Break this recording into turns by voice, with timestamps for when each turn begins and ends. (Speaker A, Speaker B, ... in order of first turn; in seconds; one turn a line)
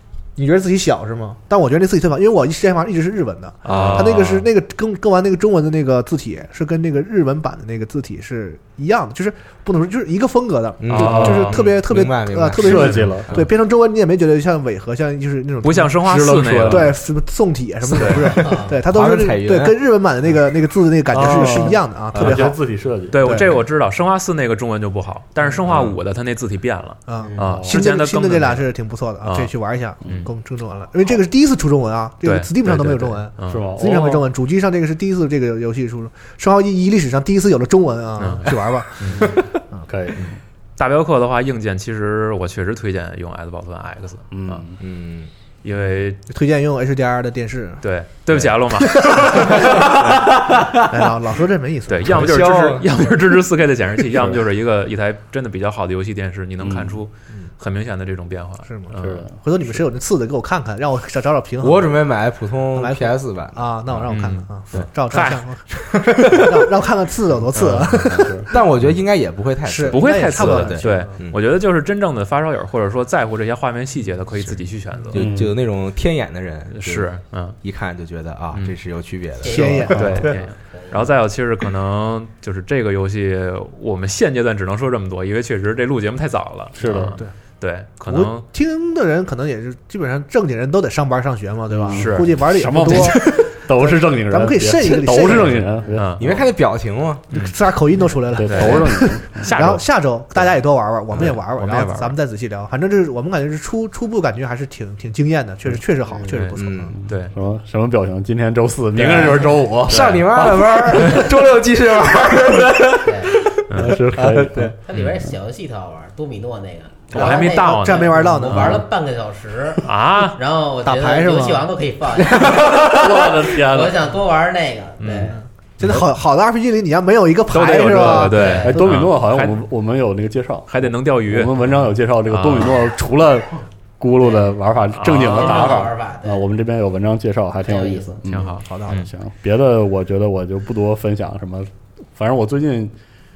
Speaker A: 0.4-22.6
Speaker B: 3.6-4.5
Speaker C: 3.7-4.2
Speaker C: 10.8-13.5
Speaker D: 11.0-11.5
Speaker B: 11.0-11.6
Speaker D: 12.6-13.3
Speaker B: 15.6-17.0
Speaker D: 16.0-17.0
Speaker B: 17.9-18.6
Speaker C: 18.0-19.8
Speaker E: 18.4-18.7
Speaker D: 21.1-23.5
Speaker C: 22.1-22.4
Speaker B: 23.1-28.7
Speaker A: 23.2-23.6
Speaker C: 25.7-26.0
Speaker A: 27.1-39.9
Speaker E: 27.2-27.6
Speaker D: 27.4-27.8
Speaker B: 29.2-29.5
Speaker B: 30.0-30.3
Speaker B: 32.2-33.7
Speaker D: 33.5-34.3
Speaker B: 38.2-39.4
Speaker D: 39.9-40.3
Speaker B: 40.1-44.7
Speaker D: 44.3-44.8
Speaker C: 44.8-45.3
Speaker B: 45.6-46.2
Speaker A: 46.3-47.8
Speaker B: 47.8-49.7
Speaker A: 49.0-50.1
Speaker C: 49.7-50.8
Speaker A: 50.9-52.3
Speaker B: 51.9-59.3
Speaker C: 52.1-52.9
Speaker D: 54.1-54.4
Speaker D: 56.6-57.0
Speaker A: 58.7-62.0
Speaker D: 59.0-59.3
Speaker C: 61.6-63.7
Speaker A: 62.8-68.7
Speaker B: 64.1-65.5
Speaker B: 67.5-68.3
Speaker D: 68.1-68.5
Speaker C: 68.5-71.4
Speaker A: 69.7-71.2
Speaker B: 69.9-75.2
Speaker C: 75.1-77.1
Speaker D: 75.1-75.5
Speaker B: 76.7-77.6
Speaker C: 77.6-80.0
Speaker E: 79.4-81.1
Speaker A: 79.5-80.4
Speaker B: 79.8-88.5
Speaker D: 79.9-80.2
Speaker D: 86.8-87.2
Speaker A: 86.9-87.4
Speaker A: 88.1-96.3
Speaker D: 91.7-96.2
Speaker B: 91.9-93.3
Speaker B: 96.0-96.3
Speaker C: 96.2-97.3
Speaker B: 97.3-97.6
Speaker A: 97.3-107.0
Speaker D: 98.4-99.5
Speaker B: 98.4-99.8
Speaker B: 101.1-102.2
Speaker E: 106.1-106.4
Speaker B: 106.3-107.3
Speaker C: 106.6-107.0
Speaker D: 107.0-111.2
Speaker C: 109.0-114.8
Speaker B: 109.9-110.2
Speaker E: 113.0-113.3
Speaker B: 113.7-114.0
Speaker D: 113.7-114.8
Speaker E: 114.8-125.4
Speaker B: 114.9-115.2
Speaker B: 117.1-118.7
Speaker A: 117.1-118.8
Speaker B: 119.8-120.4
Speaker A: 120.8-121.7
Speaker D: 122.6-124.0
Speaker B: 125.0-126.0
Speaker A: 125.1-128.5
Speaker B: 127.5-129.6
Speaker D: 127.6-142.9
Speaker E: 128.3-128.8
Speaker B: 130.7-131.6
Speaker B: 132.3-132.8
Speaker E: 134.2-134.5
Speaker B: 134.9-135.9
Speaker E: 135.1-136.4
Speaker E: 137.6-138.2
Speaker B: 138.3-139.1